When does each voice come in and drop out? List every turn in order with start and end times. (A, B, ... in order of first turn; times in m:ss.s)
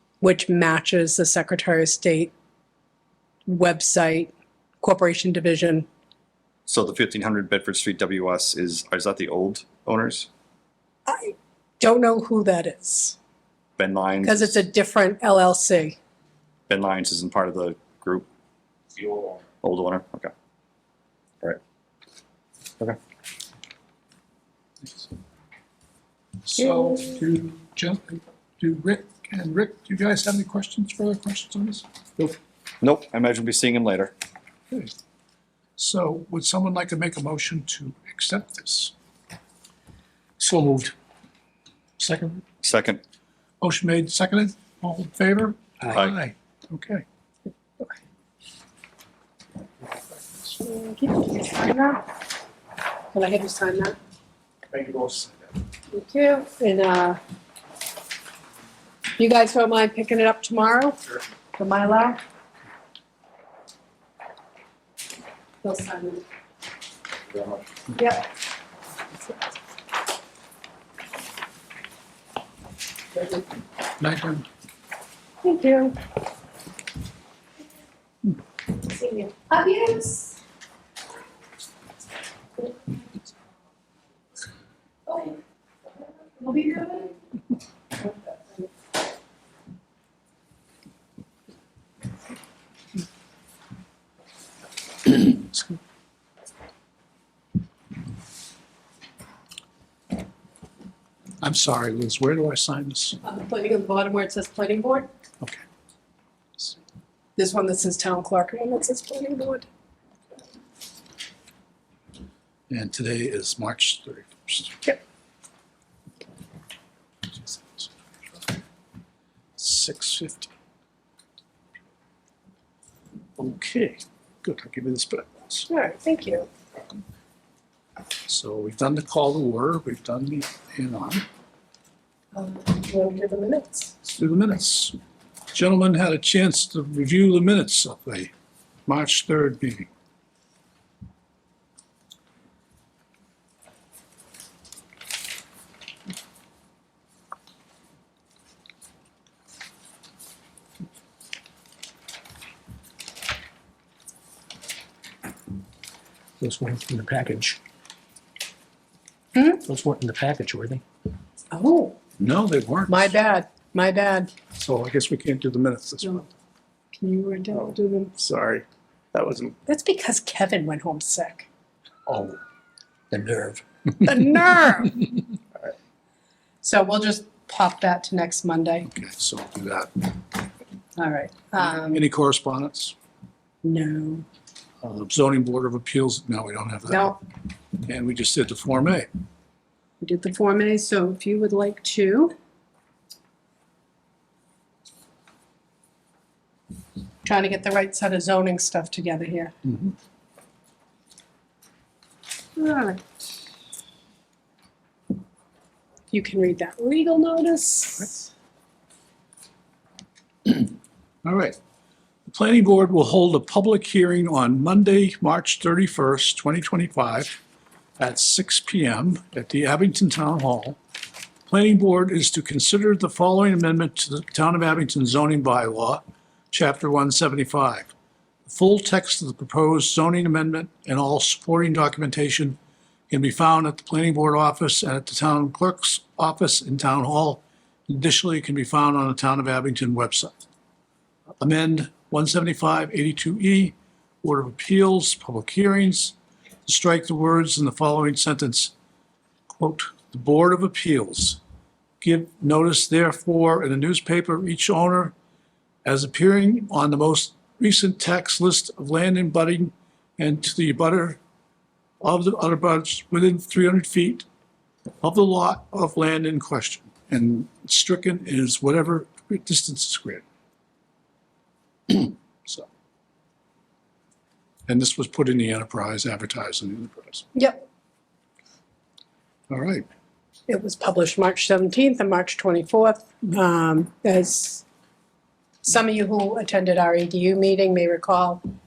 0:00.2-0:02.3 A
0:03.4-0:05.9 A
0:06.7-0:10.3 B
0:11.0-0:13.2 A
0:13.8-0:14.6 B
0:14.2-0:16.0 A
0:16.7-0:18.3 B
0:19.6-0:20.3 B
0:26.5-0:32.3 C
0:32.8-0:34.1 B
0:35.8-0:38.9 C
0:40.4-0:40.8 C
0:40.4-0:40.8 D
0:42.0-0:42.4 C
0:42.6-0:43.0 B
0:43.6-0:47.0 C
0:50.6-0:52.0 A
0:53.1-0:54.0 A
0:54.7-0:55.3 C
0:55.9-0:57.2 A
0:59.2-1:01.0 A
1:01.5-1:02.2 A
1:05.6-1:06.2 A
1:07.9-1:08.2 A
1:14.0-1:14.4 C
1:15.4-1:16.0 A
1:18.8-1:20.4 A
1:25.1-1:25.4 A
1:26.2-1:27.2 A
1:28.0-1:28.6 A
1:35.1-1:35.6 C
1:41.4-1:43.2 C
1:43.2-1:45.1 A
1:47.4-1:49.7 A
1:52.7-1:54.9 C
1:57.3-1:57.9 C
1:59.6-2:00.5 C
2:03.4-2:05.7 C
2:05.7-2:06.5 A
2:08.3-2:11.2 C
2:12.3-2:13.9 A
2:14.0-2:14.9 C
2:15.5-2:18.3 C
2:18.8-2:19.9 C
2:36.4-2:37.6 D
2:39.3-2:39.6 A
2:39.7-2:40.8 D
2:41.5-2:42.0 A
2:42.2-2:43.1 C
2:42.9-2:44.3 A
2:44.5-2:46.2 C
2:46.9-2:48.2 A
2:48.2-2:48.6 C
2:49.2-2:49.5 C
2:49.7-2:51.5 A
2:53.1-2:53.6 D
2:54.0-2:55.0 A
2:56.6-2:58.9 A
2:58.9-3:00.1 C
3:01.0-3:02.0 A
3:01.6-3:02.9 C
3:03.6-3:04.2 A
3:04.8-3:07.1 C
3:06.9-3:07.2 A
3:07.8-3:09.1 C
3:10.0-3:12.3 A
3:17.2-3:19.5 A
3:22.6-3:23.0 A
3:26.1-3:28.3 A
3:31.2-3:31.6 C
3:32.3-3:37.4 C
3:38.0-3:40.8 C
3:41.5-3:47.9 C
3:48.5-3:52.6 C
3:53.1-4:00.4 C
4:01.4-4:08.7 C
4:09.5-4:11.4 C
4:12.0-4:15.1 C
4:15.8-4:21.2 C
4:22.0-4:24.2 C
4:25.0-4:30.2 C
4:31.9-4:32.7 C
4:34.7-4:37.2 C
4:37.3-4:37.6 A
4:39.5-4:39.8 C
4:40.5-4:44.6 A
4:45.6-4:48.4 A